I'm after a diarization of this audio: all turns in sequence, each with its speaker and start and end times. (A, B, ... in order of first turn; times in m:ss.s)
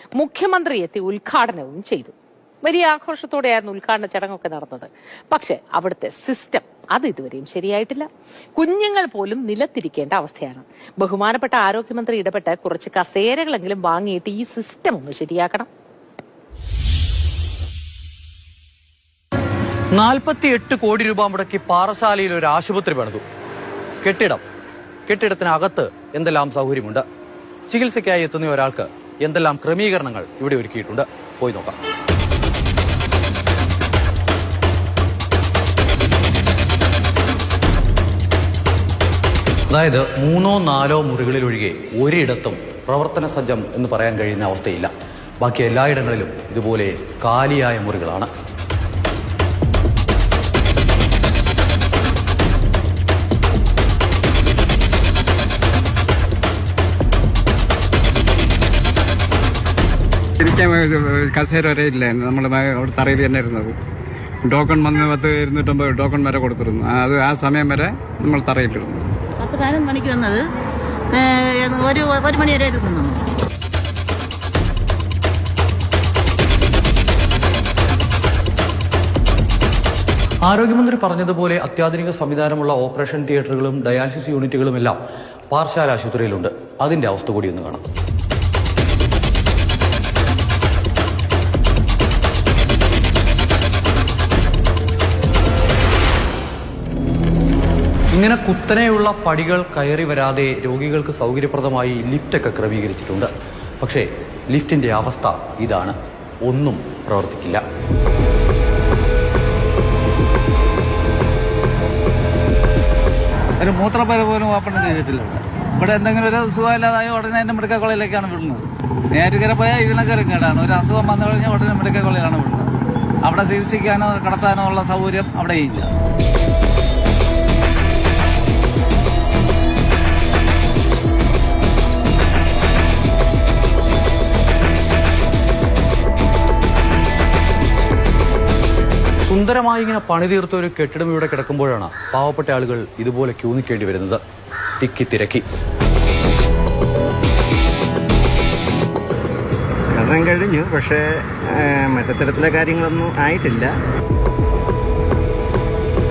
0:00.2-0:15.7 A
0:19.9-0:23.2 B
0:24.0-0:24.4 B
0:25.1-0:27.0 B
0:27.7-0:31.8 B
0:39.7-0:48.3 B
1:00.4-1:03.8 C
1:04.5-1:09.0 C
1:09.4-1:10.4 D
1:11.1-1:13.2 D
1:20.4-1:25.0 B
1:25.5-1:27.8 B
1:38.1-1:47.6 B
1:53.6-2:02.7 E
2:03.2-2:05.9 E
2:19.2-2:24.2 B
2:24.8-2:25.4 B
2:29.9-2:33.8 F